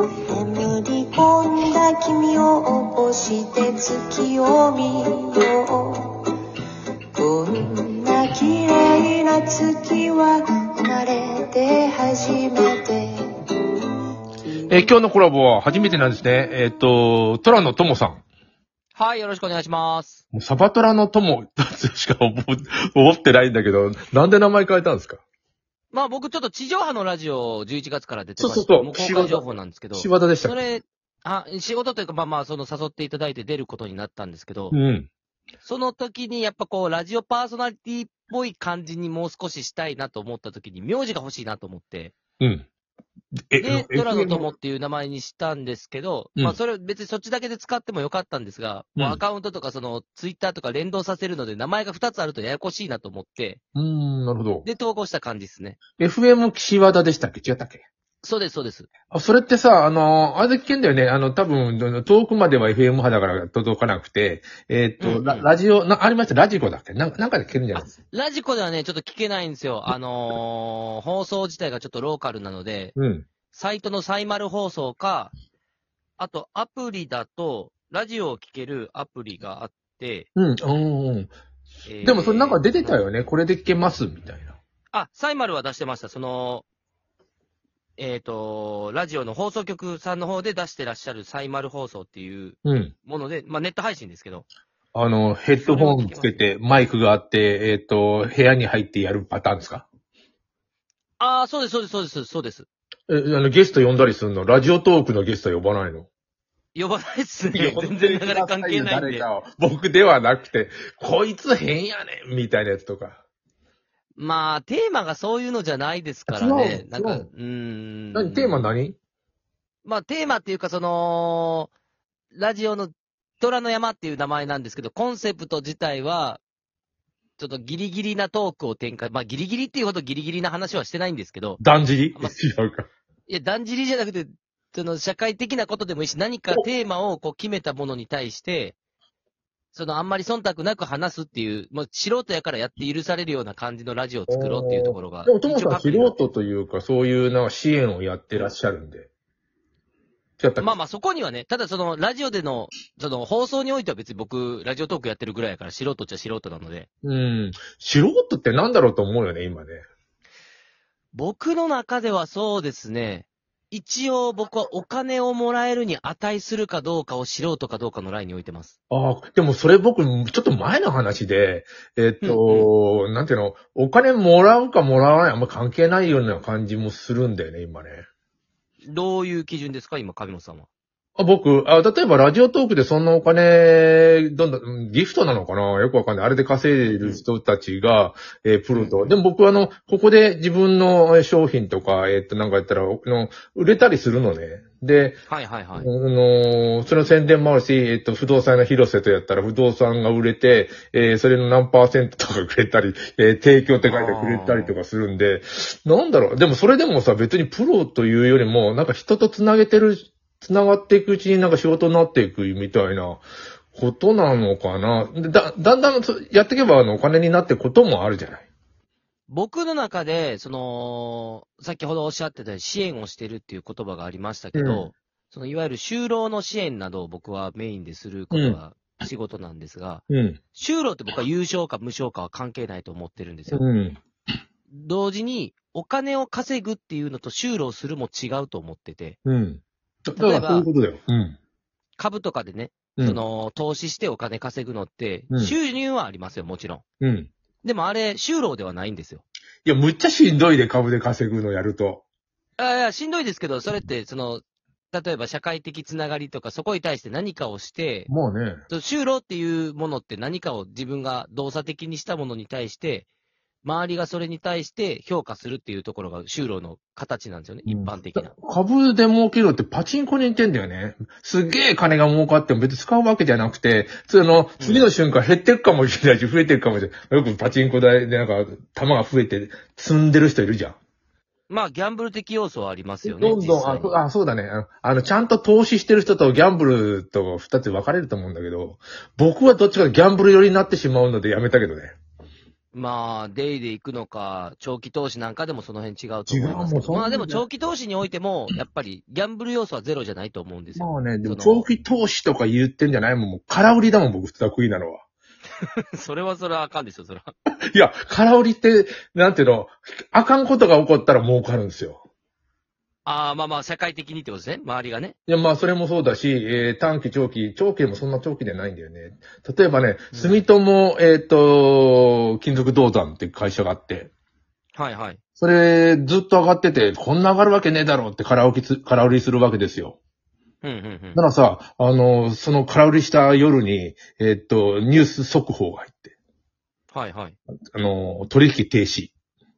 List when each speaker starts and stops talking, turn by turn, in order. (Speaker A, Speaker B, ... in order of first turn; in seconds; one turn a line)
Speaker A: 0.3-6.2
Speaker A: 7.2-13.1
Speaker B: 14.7-18.2
Speaker C: 18.9-20.2
Speaker B: 20.3-25.2
Speaker C: 25.9-34.8
Speaker B: 28.4-30.6
Speaker B: 34.7-35.1
Speaker C: 35.6-42.1
Speaker B: 42.4-42.7
Speaker B: 43.5-44.5
Speaker C: 43.6-53.6
Speaker B: 49.0-49.2
Speaker B: 53.8-54.7
Speaker C: 54.6-55.8
Speaker B: 56.0-57.9
Speaker C: 58.2-58.9
Speaker B: 59.1-67.9
Speaker C: 65.0-65.5
Speaker C: 67.7-73.0
Speaker B: 73.0-73.3
Speaker C: 73.5-75.3
Speaker C: 76.2-80.3
Speaker B: 80.3-81.3
Speaker C: 81.9-83.0
Speaker B: 82.0-84.6
Speaker C: 84.9-86.7
Speaker C: 88.0-94.5
Speaker B: 92.7-92.9
Speaker B: 94.9-99.9
Speaker C: 95.6-96.5
Speaker C: 101.2-102.7
Speaker B: 103.1-106.1
Speaker C: 106.8-109.3
Speaker B: 107.5-113.2
Speaker C: 114.2-118.7
Speaker B: 116.3-117.3
Speaker B: 118.1-119.0
Speaker C: 119.8-121.7
Speaker C: 122.3-126.4
Speaker C: 127.4-131.6
Speaker B: 131.6-132.9
Speaker C: 133.3-138.8
Speaker C: 139.7-146.2
Speaker B: 144.3-149.1
Speaker B: 150.4-150.7
Speaker C: 150.6-156.9
Speaker B: 157.0-159.8
Speaker C: 161.1-168.8
Speaker B: 168.9-178.1
Speaker C: 172.2-172.7
Speaker C: 178.8-180.7
Speaker B: 181.2-195.2
Speaker C: 186.9-187.2
Speaker C: 188.7-189.2
Speaker C: 195.3-195.9
Speaker B: 195.8-218.5
Speaker C: 203.8-204.7
Speaker C: 219.3-230.0
Speaker B: 224.6-224.9
Speaker B: 228.3-228.6
Speaker B: 230.1-230.4
Speaker C: 230.5-233.6
Speaker B: 233.5-234.0
Speaker C: 234.7-239.2
Speaker B: 239.2-241.4
Speaker C: 240.2-240.7
Speaker C: 242.0-246.8
Speaker B: 245.3-245.6
Speaker B: 247.0-247.3
Speaker C: 247.6-249.2
Speaker B: 249.7-252.0
Speaker C: 252.6-258.1
Speaker B: 258.1-258.6
Speaker C: 258.7-263.1
Speaker C: 263.6-268.3
Speaker B: 267.7-280.8
Speaker C: 274.6-274.9
Speaker C: 281.5-284.0
Speaker B: 283.1-292.0
Speaker C: 292.7-301.7
Speaker B: 296.3-297.4
Speaker B: 300.7-305.0
Speaker C: 305.6-307.3
Speaker B: 307.7-312.0
Speaker C: 313.1-315.1
Speaker B: 315.3-324.1
Speaker C: 320.1-320.4
Speaker C: 324.8-325.2
Speaker B: 325.4-330.0
Speaker C: 330.6-331.2
Speaker B: 331.1-336.1
Speaker C: 336.9-337.4
Speaker B: 337.7-339.1